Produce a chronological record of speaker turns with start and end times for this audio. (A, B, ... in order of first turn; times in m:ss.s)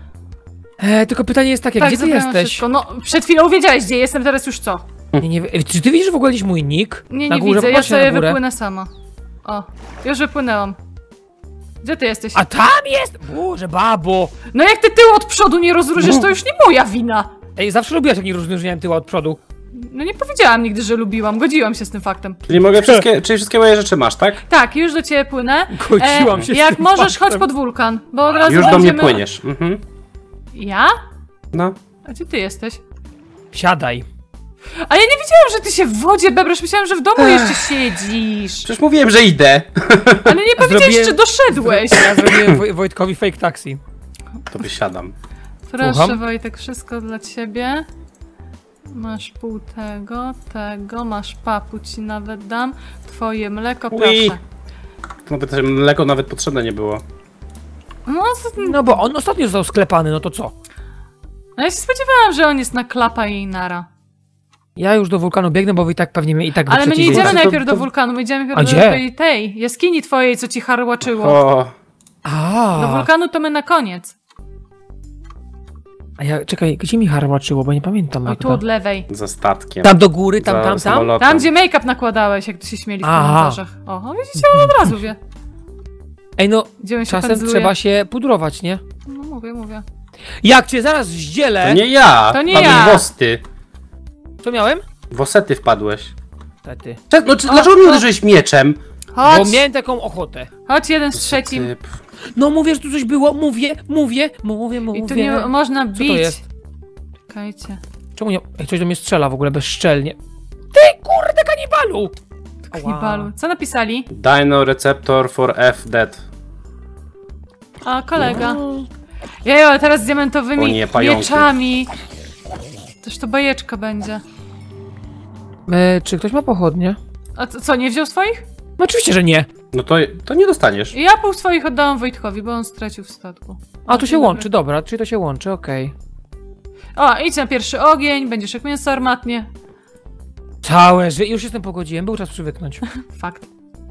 0:00.8-0:02.6 A
0:01.8-0:04.8 B
0:05.2-0:08.4 A
0:07.1-0:08.9 B
0:09.4-0:10.8 B
0:11.8-0:12.4 B
0:12.3-0:14.3 A
0:14.5-0:17.3 B
0:16.0-0:16.3 C
0:17.6-0:19.4 A
0:19.7-0:22.5 B
0:22.5-0:24.4 C
0:24.5-0:29.2 B
0:25.7-0:27.4 A
0:28.4-0:29.8 C
0:30.5-0:30.9 B
0:31.5-0:31.8 C
0:32.0-0:32.8 B
0:33.5-0:34.0 A
0:34.8-0:38.7 B
0:37.2-0:37.8 C
0:38.6-0:40.4 C
0:40.2-0:42.4 B
0:40.6-0:43.8 A
0:42.4-0:42.6 C
0:44.5-0:45.1 C
0:45.7-0:47.9 B
0:45.8-0:46.2 A
0:48.9-0:54.4 B
0:53.9-0:54.4 C
0:55.2-0:57.0 C
0:58.0-0:59.0 B
0:58.6-1:00.5 A
1:01.6-1:03.8 B
1:04.8-1:07.4 A
1:06.7-1:11.4 B
1:07.1-1:07.9 C
1:08.5-1:09.0 A
1:11.1-1:11.7 C
1:12.2-1:13.1 A
1:12.8-1:14.1 B
1:16.2-1:18.6 A
1:18.2-1:19.1 B
1:19.1-1:21.5 C
1:19.8-1:21.1 A
1:21.2-1:25.2 B
1:23.0-1:23.6 A
1:26.4-1:28.8 A
1:26.8-1:27.7 B
1:29.0-1:29.8 B
1:30.4-1:31.8 A
1:31.6-1:33.4 C
1:32.3-1:33.1 B
1:32.5-1:32.8 A
1:34.4-1:34.8 A
1:35.1-1:36.1 C
1:36.6-1:37.0 A
1:37.1-1:38.8 C
1:37.5-1:38.0 B
1:39.1-1:39.6 B
1:39.2-1:40.5 A
1:40.7-1:41.7 B
1:41.1-1:41.9 C
1:42.3-1:46.4 A
1:44.9-1:46.4 B
1:47.3-1:47.8 B
1:48.2-1:50.2 A
1:50.7-1:52.1 A
1:52.7-1:54.1 B
1:52.7-1:53.3 A
1:54.1-1:56.2 C
1:57.8-1:58.6 B
1:58.2-1:58.9 A
1:59.4-2:01.9 B
2:00.6-2:01.5 C
2:03.0-2:04.2 B
2:05.7-2:07.0 A
2:07.4-2:08.4 B
2:08.8-2:09.5 A
2:09.7-2:11.0 C
2:10.9-2:14.4 B
2:13.8-2:15.9 A
2:17.0-2:19.5 B
2:20.6-2:22.8 A
2:22.9-2:23.5 B